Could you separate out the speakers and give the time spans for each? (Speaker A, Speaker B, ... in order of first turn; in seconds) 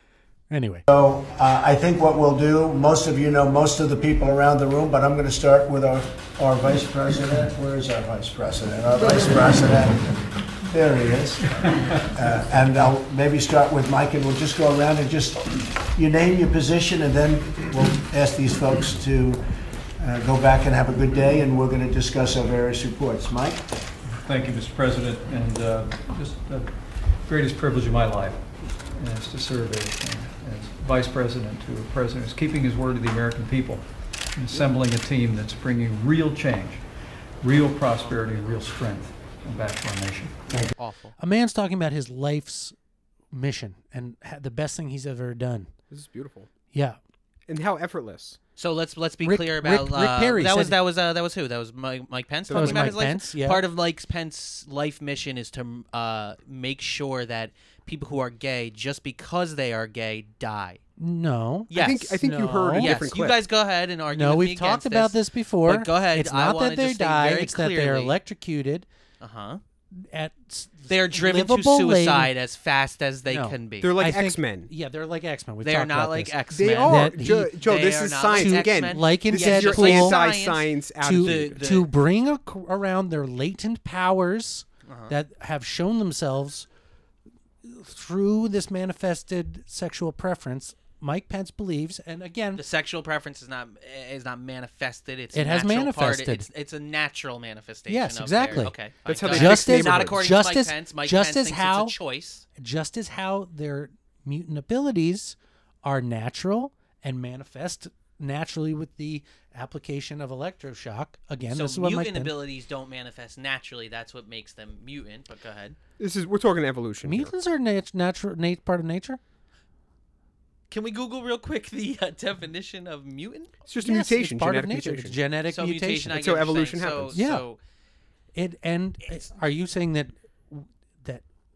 Speaker A: 0.5-0.8, 41.2-42.8, 43.3-45.7, 46.7-47.0, 49.2-50.8, 52.5-53.6, 61.0-63.0, 64.1-68.9, 69.9-72.3, 73.3-77.8, 78.3-80.2, 81.0-86.7, 87.6-92.6, 95.3-96.5, 97.9-98.7, 99.3-102.0, 102.6-112.4, 117.0-119.2, 123.8-126.2, 127.1-127.5, 128.3-131.2
Speaker B: 0.9-19.4, 20.0-23.6
Speaker C: 24.1-36.8, 37.4-40.4
Speaker D: 38.0-38.6, 40.8-41.1, 48.6-60.8, 61.7-62.2, 62.7-68.2, 69.2-69.6, 70.9-73.9, 75.6-81.9, 84.9-85.1, 92.6-102.5, 111.5-115.8, 120.7-123.5, 125.5-127.6
Speaker E: 45.9-46.5, 47.5-48.4, 52.5-53.0, 61.7-63.4, 73.8-74.7, 76.5-81.6, 99.1-100.2, 116.0-117.3, 123.7-125.2, 126.1-127.2